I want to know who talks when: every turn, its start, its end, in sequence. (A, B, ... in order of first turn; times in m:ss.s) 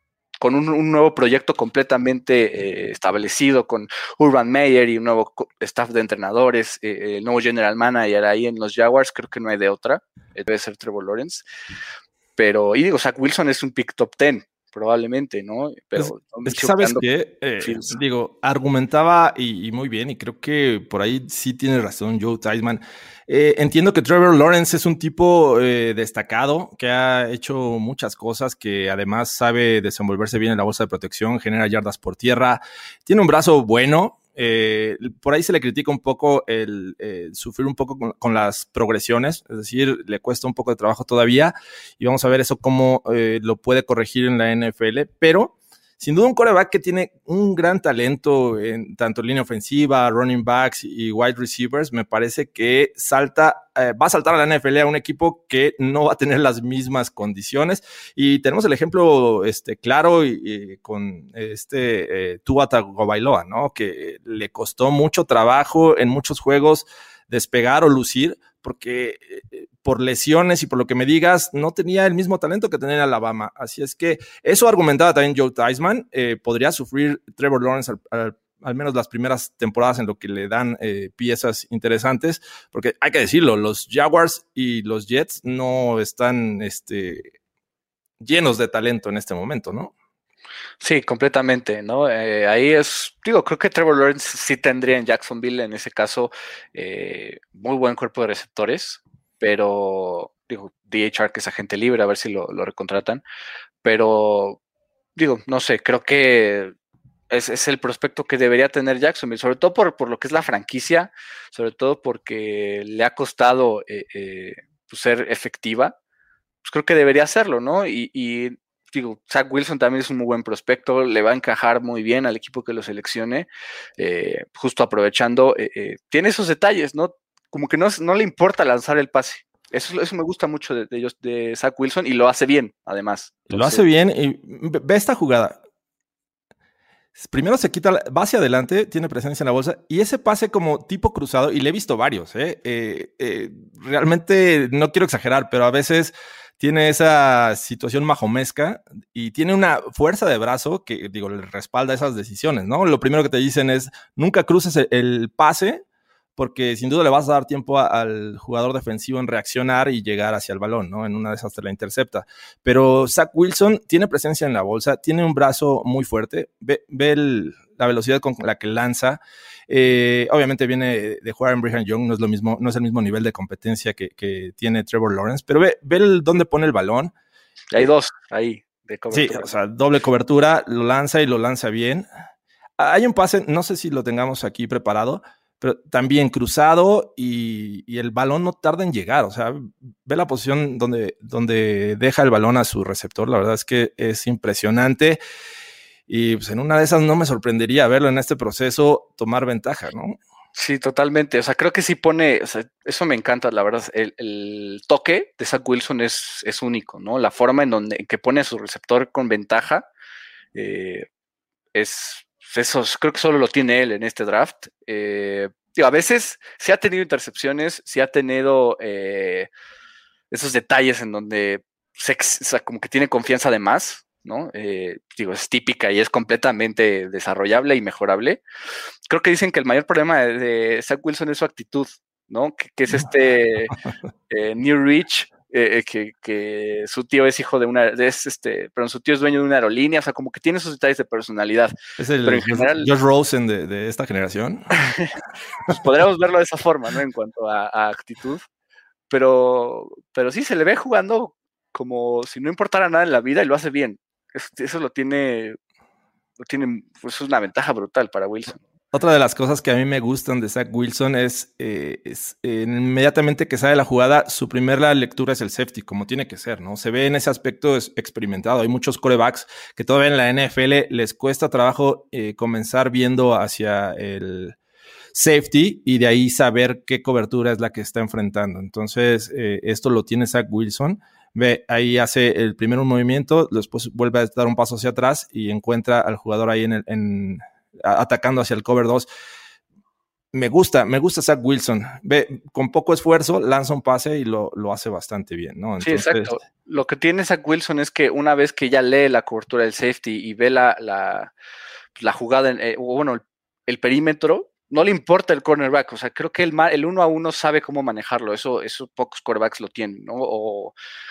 0:00.4-0:11.4 A
0:12.4-0:17.0 A
0:16.0-1:27.3 B
0:17.6-0:17.9 A
1:28.2-1:29.9 B
1:30.8-1:43.2 A
1:43.8-1:44.6 A
1:45.2-1:46.7 A
1:47.3-1:55.9 A
1:56.6-2:13.8 A
2:13.5-2:15.6 B
2:17.2-2:35.8 B
2:36.4-2:57.1 B
2:57.7-2:59.5 A
2:59.1-3:02.1 B
3:02.8-3:15.2 B
3:16.1-3:20.2 B
3:20.5-3:29.9 A
3:30.5-3:31.0 A
3:31.7-3:39.5 A
3:40.3-3:48.4 A
3:49.1-3:53.8 A
3:54.3-4:01.7 A
4:02.0-4:04.7 B
4:02.2-4:02.9 A
4:04.8-4:05.1 A
4:05.7-4:08.4 A
4:09.1-4:15.6 A
4:16.4-4:18.6 A
4:18.9-4:34.6 B
4:35.1-4:49.1 B
4:50.3-4:56.3 B
4:55.8-5:01.3 A
5:02.0-5:10.7 A